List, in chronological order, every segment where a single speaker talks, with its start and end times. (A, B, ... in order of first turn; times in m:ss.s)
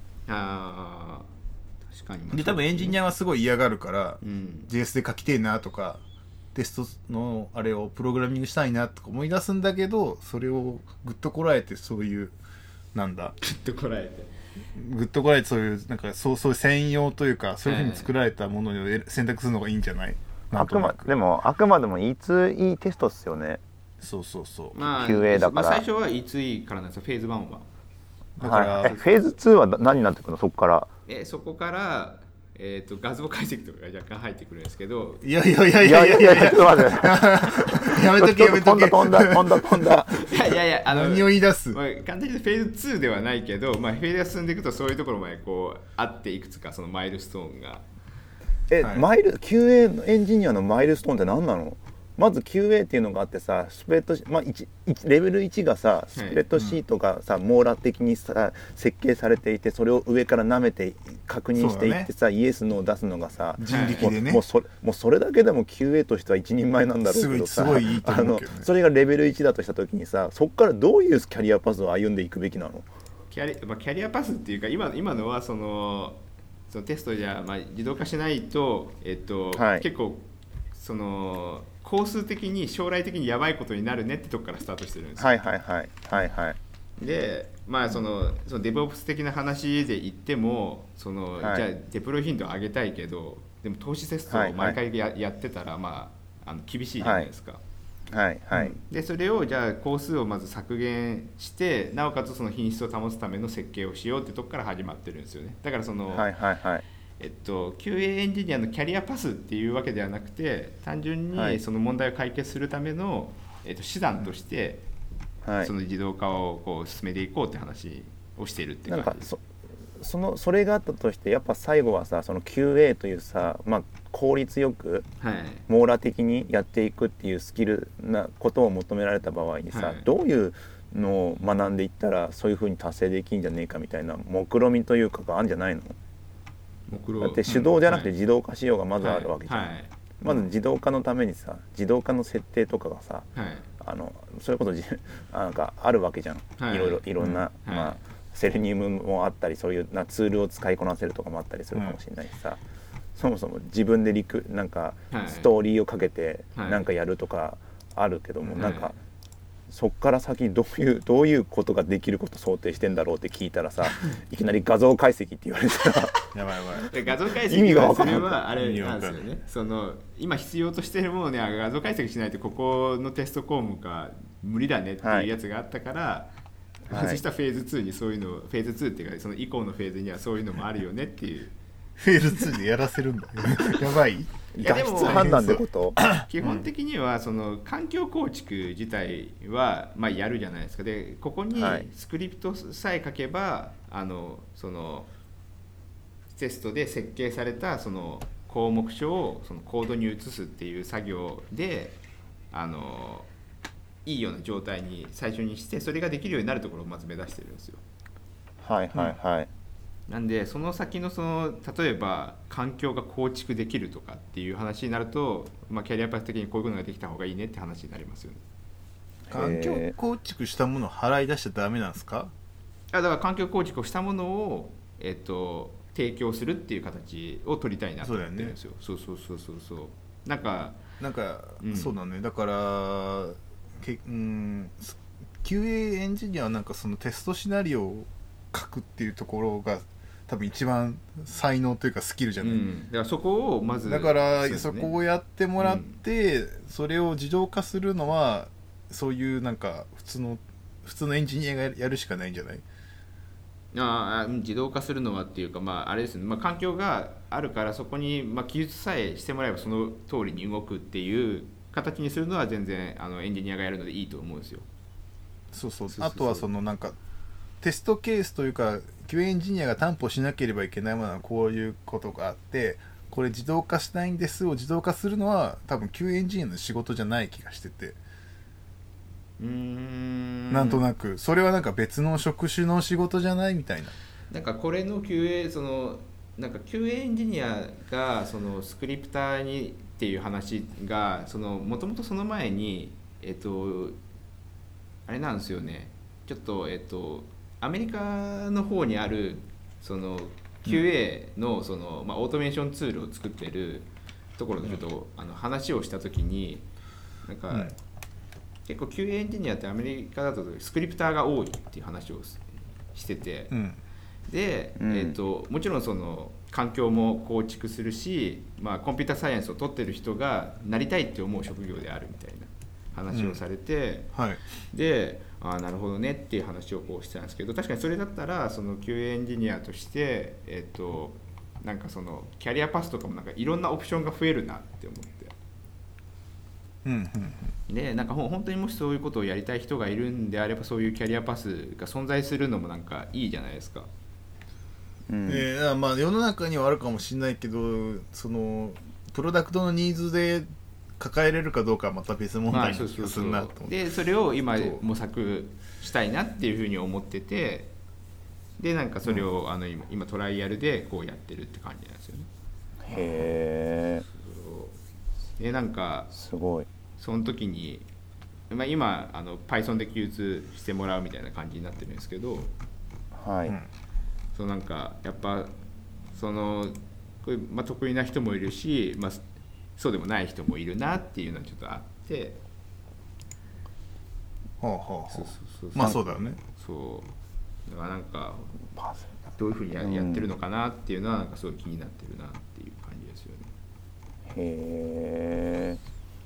0:00.3-0:01.3 A
0:01.8-0:03.0 A
0:02.3-0:06.0 B
0:04.2-0:04.7 A
0:06.5-0:12.4 B
0:13.0-0:13.4 B
0:13.4-0:14.3 A
0:14.8-0:21.1 B
0:17.6-0:18.1 A
0:20.5-0:23.6 C
0:24.0-0:24.8 B
0:24.7-0:27.7 A
0:24.9-0:25.8 C
0:28.4-0:29.0 B
0:28.4-0:30.9 C
0:28.8-0:29.1 A
0:31.1-0:35.3 A
0:35.2-0:39.9 B
0:35.8-0:37.2 C
0:38.1-0:40.3 C
0:40.2-0:47.8 A
0:40.9-0:41.8 B
0:48.7-1:12.9 C
0:56.1-0:56.4 A
1:01.6-1:02.1 B
1:03.6-1:04.4 B
1:03.7-1:04.1 A
1:07.1-1:08.7 B
1:13.3-1:25.5 A
1:19.5-1:19.9 C
1:25.2-1:26.6 C
1:27.0-1:37.6 A
1:31.4-1:31.7 C
1:34.3-1:34.8 C
1:37.0-1:37.3 C
1:38.1-1:38.8 C
1:38.5-1:46.3 A
1:46.1-1:46.8 C
1:47.2-1:54.8 A
1:51.3-1:51.6 C
1:55.4-1:55.7 C
1:55.6-1:59.3 A
1:58.9-1:59.4 C
2:00.0-2:05.1 C
2:05.2-2:05.7 A
2:05.7-2:16.0 C
2:09.7-2:10.1 A
2:16.9-2:18.1 A
2:17.2-2:23.3 C
2:19.0-2:19.9 A
2:23.4-2:23.7 A
2:23.8-2:32.6 C
2:26.6-2:28.0 A
2:31.7-2:32.0 B
2:33.2-2:38.9 C
2:35.1-2:35.5 A
2:36.6-2:36.8 A
2:38.4-2:38.7 B
2:38.6-2:38.9 A
2:39.7-2:46.3 C
2:46.3-2:46.9 B
2:46.9-2:56.3 A
2:47.5-2:48.3 C
2:48.1-2:49.2 B
2:55.0-2:55.3 C
2:56.9-2:57.2 C
2:56.9-3:01.5 A
3:02.0-3:06.7 B
3:04.6-3:06.1 C
3:04.6-3:05.4 A
3:06.1-3:15.1 A
3:11.6-3:11.9 C
3:16.3-3:22.0 A
3:22.5-3:23.3 A
3:24.0-3:27.8 A
3:28.6-3:29.5 C
3:30.1-3:38.4 A
3:39.3-3:39.9 C
3:39.3-3:42.3 B
3:42.9-3:50.8 A
3:48.0-3:48.6 B
3:51.0-4:02.6 B
3:51.6-3:51.9 A
4:02.4-4:04.9 A
4:03.8-4:12.6 B
4:05.6-4:06.0 A
4:13.7-4:24.7 A
4:25.5-4:27.0 B
4:25.9-4:26.5 A
4:27.6-4:38.0 B
4:39.4-4:40.8 A
4:40.5-4:44.0 B
4:44.3-4:54.0 A
4:55.1-5:06.7 A
5:07.2-5:07.8 A
5:08.7-5:13.5 A
5:13.5-5:13.8 B
5:14.3-5:24.1 A
5:14.8-5:15.2 C
5:23.1-5:23.4 B
5:24.1-5:24.4 B
5:24.7-5:35.3 A
5:36.8-5:37.5 B
5:37.7-5:43.9 A
5:45.1-5:45.5 C
5:45.3-5:53.8 B
5:52.5-5:57.7 A
5:54.6-5:54.8 B
5:58.6-6:02.3 A
6:02.9-6:04.0 C
6:03.0-6:03.3 A
6:04.1-6:04.8 A
6:05.4-6:06.1 A
6:06.1-6:06.7 C
6:07.0-6:07.9 A
6:08.5-6:12.5 A
6:13.1-6:13.6 C
6:14.3-6:15.5 A
6:16.1-6:19.2 A
6:19.8-6:22.4 A
6:24.6-6:26.4 B
6:25.1-6:27.1 A
6:27.7-6:28.6 A
6:29.4-6:33.5 A
6:29.8-6:30.3 C
6:34.3-6:35.8 C